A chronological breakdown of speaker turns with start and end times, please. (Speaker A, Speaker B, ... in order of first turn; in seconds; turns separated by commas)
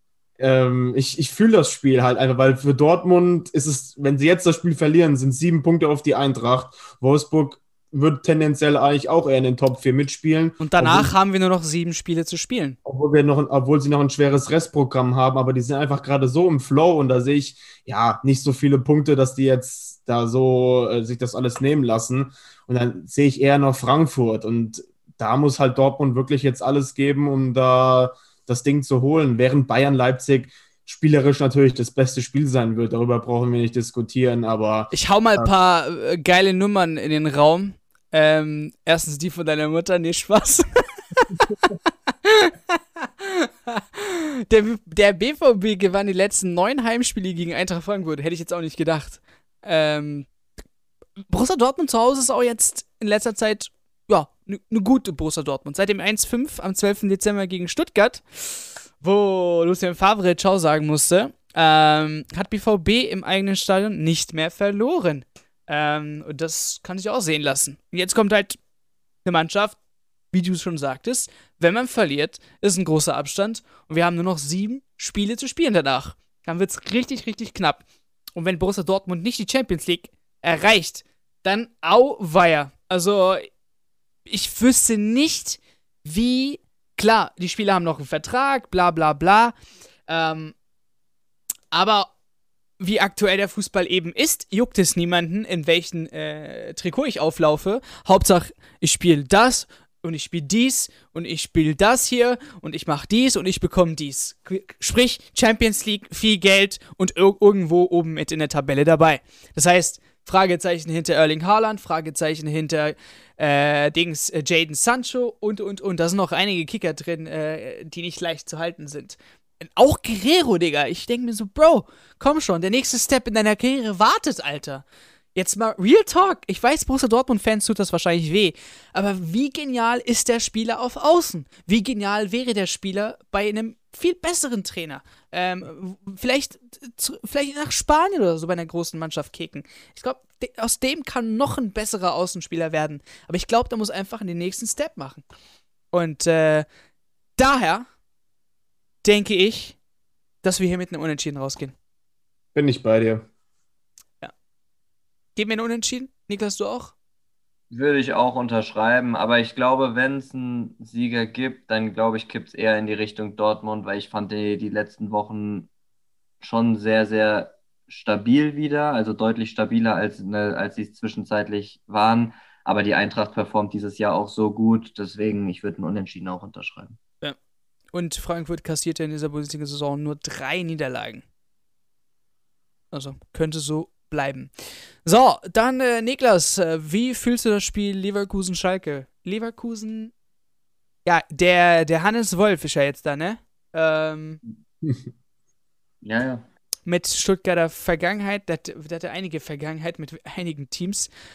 Speaker A: 0.4-11.1, Speaker B: 10.6-12.8, Speaker A: 12.8-35.5, Speaker B: 34.9-41.5, Speaker B: 42.2-50.3, Speaker B: 51.3-68.6, Speaker B: 69.2-69.8, Speaker B: 70.3-83.5, Speaker B: 84.3-89.5, Speaker B: 90.1-90.5, Speaker B: 91.7-92.1, Speaker B: 92.8-145.2, Speaker B: 145.9-146.7, Speaker B: 147.4-147.8, Speaker B: 149.0-149.8, Speaker B: 150.4-151.7, Speaker A: 152.5-153.2, Speaker B: 155.3-156.9, Speaker C: 157.7-165.7, Speaker C: 166.4-177.0, Speaker B: 177.9-181.2, Speaker B: 182.9-184.5, Speaker B: 185.0-190.1, Speaker B: 191.0-194.4, Speaker C: 196.0-196.4, Speaker B: 196.8-201.1